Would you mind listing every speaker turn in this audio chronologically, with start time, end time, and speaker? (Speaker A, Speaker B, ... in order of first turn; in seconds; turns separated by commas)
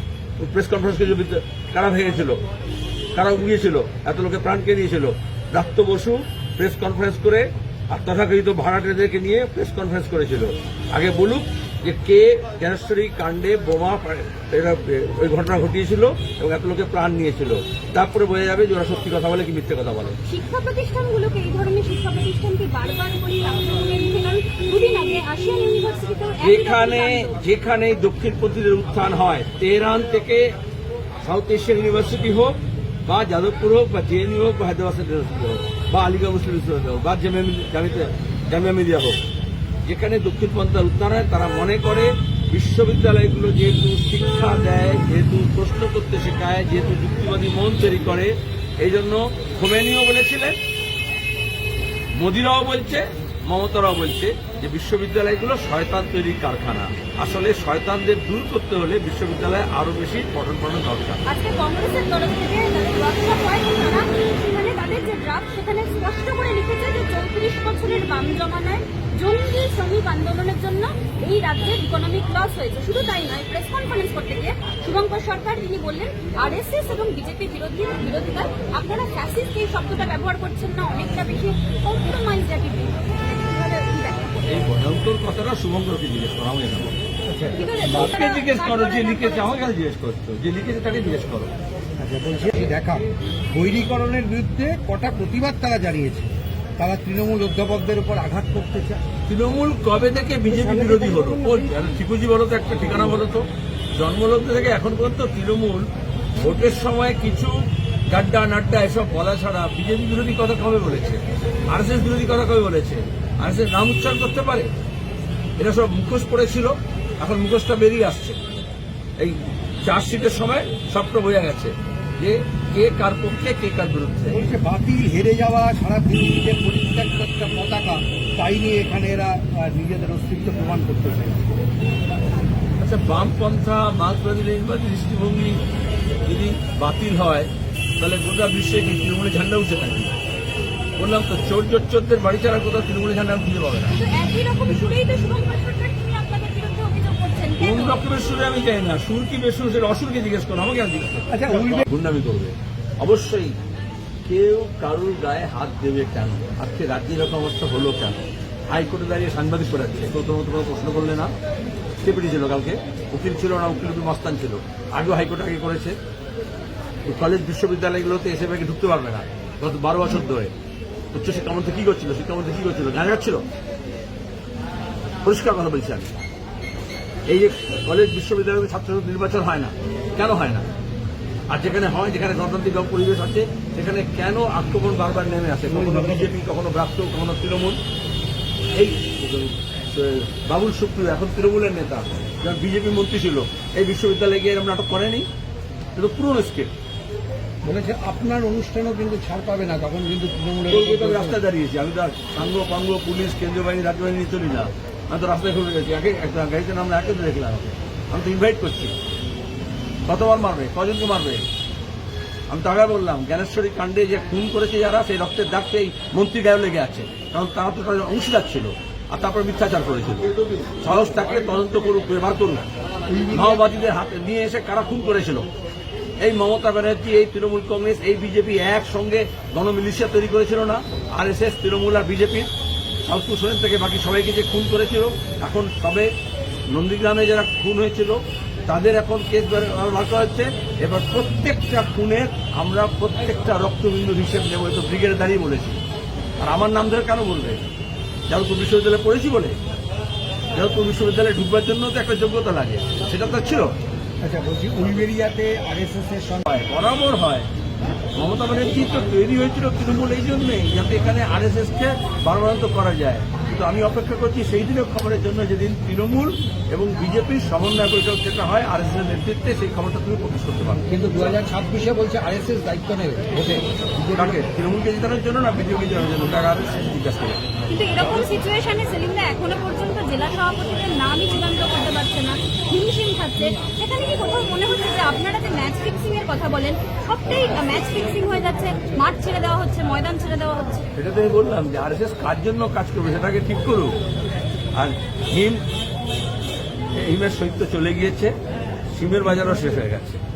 Speaker A: 0.4-2.4, Speaker A: 3.1-20.2, Speaker B: 20.2-27.4, Speaker A: 26.4-30.5, Speaker A: 31.2-39.2, Speaker A: 39.9-50.6, Speaker A: 52.1-61.2, Speaker B: 61.2-84.6, Speaker A: 84.5-87.0, Speaker C: 87.3-87.6, Speaker B: 87.5-89.7, Speaker A: 87.8-91.5, Speaker C: 92.0-99.0, Speaker A: 99.3-105.8, Speaker C: 100.5-101.8, Speaker A: 106.4-107.6, Speaker A: 108.1-114.7, Speaker A: 115.6-118.4, Speaker A: 119.2-124.4, Speaker C: 124.3-131.5, Speaker A: 132.8-135.6, Speaker A: 136.2-140.1, Speaker A: 141.0-143.9, Speaker B: 143.9-148.0, Speaker A: 147.6-153.6, Speaker C: 151.3-151.8, Speaker A: 154.2-158.2, Speaker A: 158.7-161.3, Speaker A: 162.0-165.9, Speaker A: 167.1-170.5, Speaker A: 171.1-173.4, Speaker A: 175.2-176.1, Speaker A: 177.3-180.6, Speaker A: 181.5-187.8, Speaker C: 185.7-186.3, Speaker A: 188.7-195.3, Speaker A: 195.9-196.7, Speaker C: 197.6-201.4, Speaker A: 200.7-208.9, Speaker A: 210.1-211.4, Speaker A: 212.5-222.7, Speaker C: 223.1-223.6, Speaker A: 223.3-225.5, Speaker A: 226.2-232.5, Speaker A: 233.0-236.1, Speaker A: 236.7-245.8, Speaker A: 246.4-247.6, Speaker A: 248.3-249.6, Speaker A: 250.5-253.7, Speaker C: 254.2-256.5, Speaker A: 256.5-257.5, Speaker A: 258.1-271.2, Speaker C: 270.9-274.4, Speaker A: 274.1-277.4, Speaker B: 277.7-290.9, Speaker A: 290.9-293.9, Speaker A: 294.8-295.6, Speaker A: 296.9-298.3, Speaker A: 298.9-300.2